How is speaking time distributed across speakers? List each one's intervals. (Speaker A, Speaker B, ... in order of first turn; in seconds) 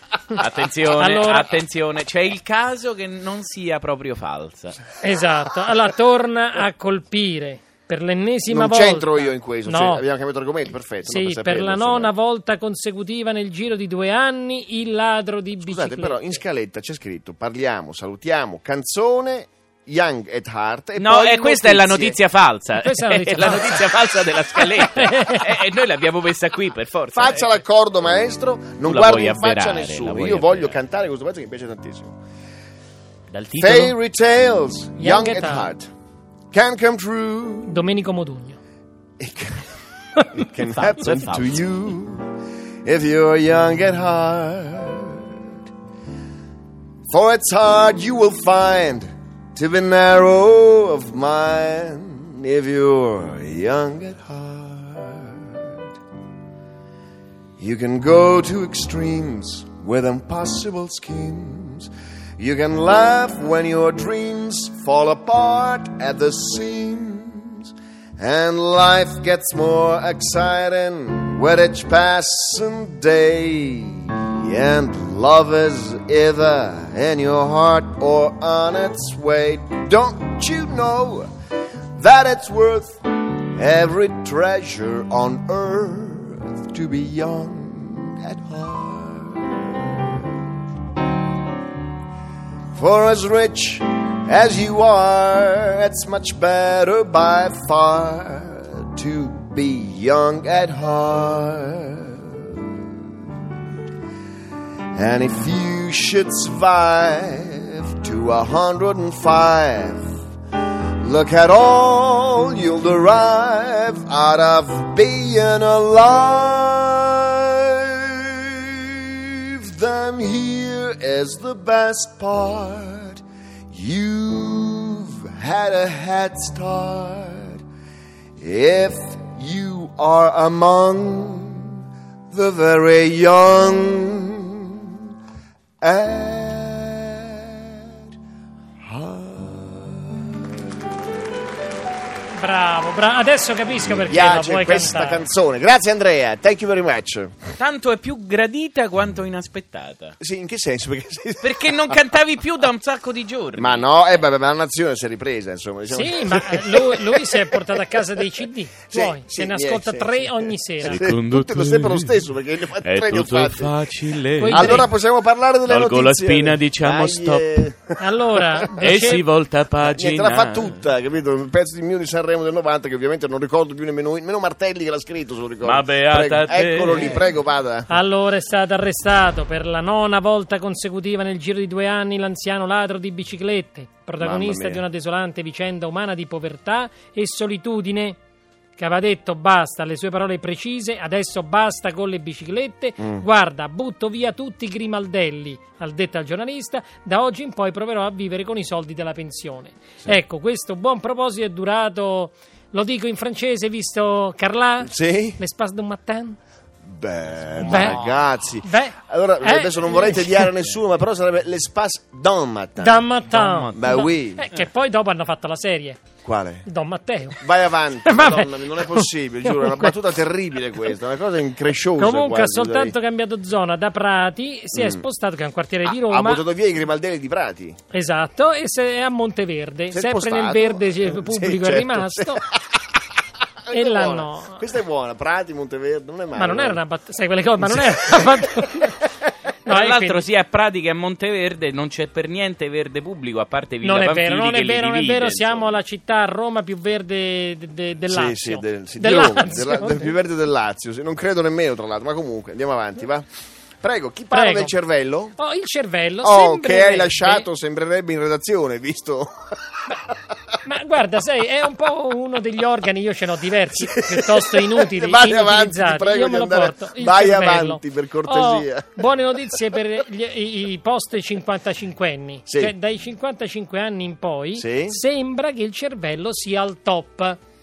Speaker A: 0.4-4.8, 21.0-27.5, 28.8-30.8, 33.3-33.9, 40.6-41.6, 147.6-150.2, 151.4-153.9, 160.8-162.3, 162.8-164.9, 165.7-167.5, 168.8-170.8, 175.6-177.2, 207.6-208.1, 213.3-214.0, 239.7-245.8
Speaker B: 0.9-1.6, 5.0-10.1, 11.0-16.4, 22.8-24.0, 24.6-25.4, 35.0-35.7, 37.7-38.6, 142.3-145.3, 155.9-161.1, 164.4-164.9, 168.0-169.2, 177.9-188.2, 188.8-206.4, 207.6-208.0, 208.6-210.5, 212.8-216.0, 216.7-217.4, 218.0-220.0, 222.0-226.4, 227.9-232.4, 233.7-234.6, 236.3-239.0, 239.7-240.3, 243.8-250.1, 254.3-254.7, 255.4-257.5, 260.6-277.4
Speaker C: 8.5-12.1, 15.6-22.2, 27.1-32.2, 33.6-35.9, 36.5-37.9, 39.2-39.7, 40.3-42.3, 42.9-45.3, 47.1-55.6, 57.6-81.3, 82.0-90.4, 92.7-102.7, 105.0-110.2, 111.0-123.2, 123.7-127.6, 128.4-135.0, 135.8-137.9, 138.9-140.7, 143.8-147.3, 150.2-151.9, 153.6-158.0, 158.9-163.8, 164.5-169.1, 169.8-177.9, 184.2-184.8, 193.0-193.2, 204.8-205.4, 206.9-213.1, 213.7-214.5, 216.2-216.7, 217.4-223.0, 224.7-225.1, 225.9-227.8, 229.9-232.6, 233.7-236.8, 237.6-238.4, 248.1-253.3, 253.8-255.4, 256.2-259.3, 263.8-269.5, 272.5-272.7, 274.6-275.0